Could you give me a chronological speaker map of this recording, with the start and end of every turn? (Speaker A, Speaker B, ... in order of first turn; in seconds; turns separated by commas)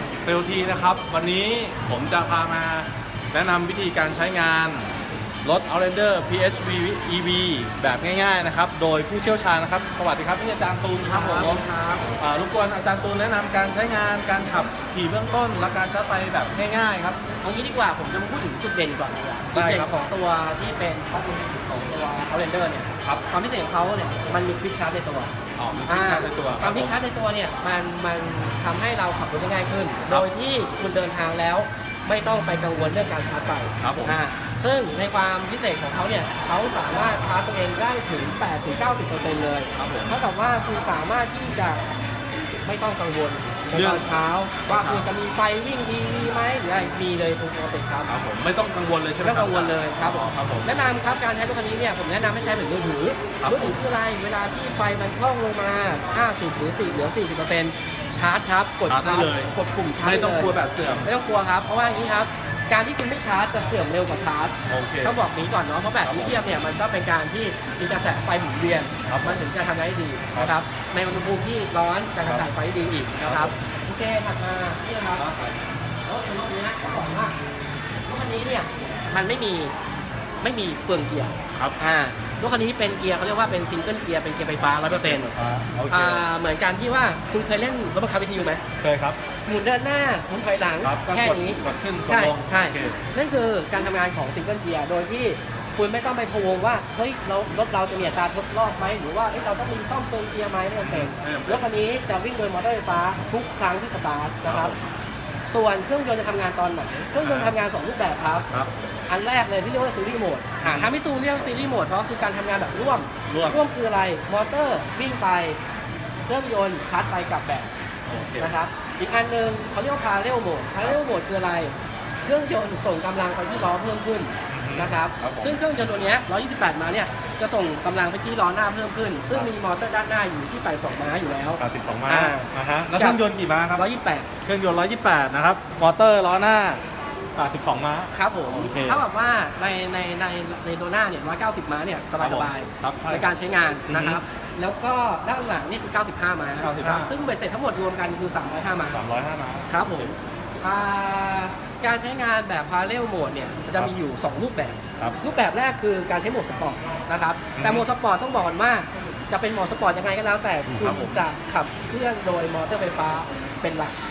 Speaker A: 0.2-4.9, Speaker A: 5.4-11.6, Speaker B: 11.0-12.1, Speaker A: 12.2-17.2, Speaker B: 17.4-25.3, Speaker A: 19.5-19.9, Speaker A: 25.6-26.9, Speaker B: 25.9-41.8, Speaker A: 33.8-34.2, Speaker A: 39.8-40.1, Speaker B: 42.6-48.1, Speaker A: 43.7-44.1, Speaker A: 44.6-45.0, Speaker A: 48.1-50.7, Speaker B: 49.2-75.3, Speaker A: 53.4-53.7, Speaker A: 58.9-59.5, Speaker A: 60.0-61.1, Speaker A: 64.7-65.2, Speaker A: 66.0-66.4, Speaker A: 69.1-69.4, Speaker A: 73.2-73.5, Speaker A: 75.2-75.6, Speaker B: 76.0-77.4, Speaker B: 78.0-79.7, Speaker B: 80.4-85.3, Speaker A: 84.9-86.2, Speaker B: 85.9-88.6, Speaker A: 88.8-89.2, Speaker B: 89.4-104.7, Speaker A: 90.8-93.0, Speaker A: 100.8-101.7, Speaker A: 104.4-104.8, Speaker B: 105.5-108.5, Speaker A: 107.2-107.5, Speaker B: 109.1-115.6, Speaker A: 110.6-110.9, Speaker A: 113.3-113.6, Speaker B: 116.3-117.7, Speaker A: 118.1-118.5, Speaker B: 118.4-121.7, Speaker B: 122.2-133.2, Speaker A: 124.5-125.5, Speaker A: 131.6-133.8, Speaker B: 133.7-134.3, Speaker A: 134.4-136.8, Speaker A: 137.3-139.0, Speaker B: 138.1-149.0, Speaker A: 142.2-143.3, Speaker A: 143.9-144.2, Speaker A: 146.6-147.1, Speaker A: 148.9-150.1, Speaker B: 149.7-163.9, Speaker A: 157.6-157.8, Speaker A: 160.7-161.2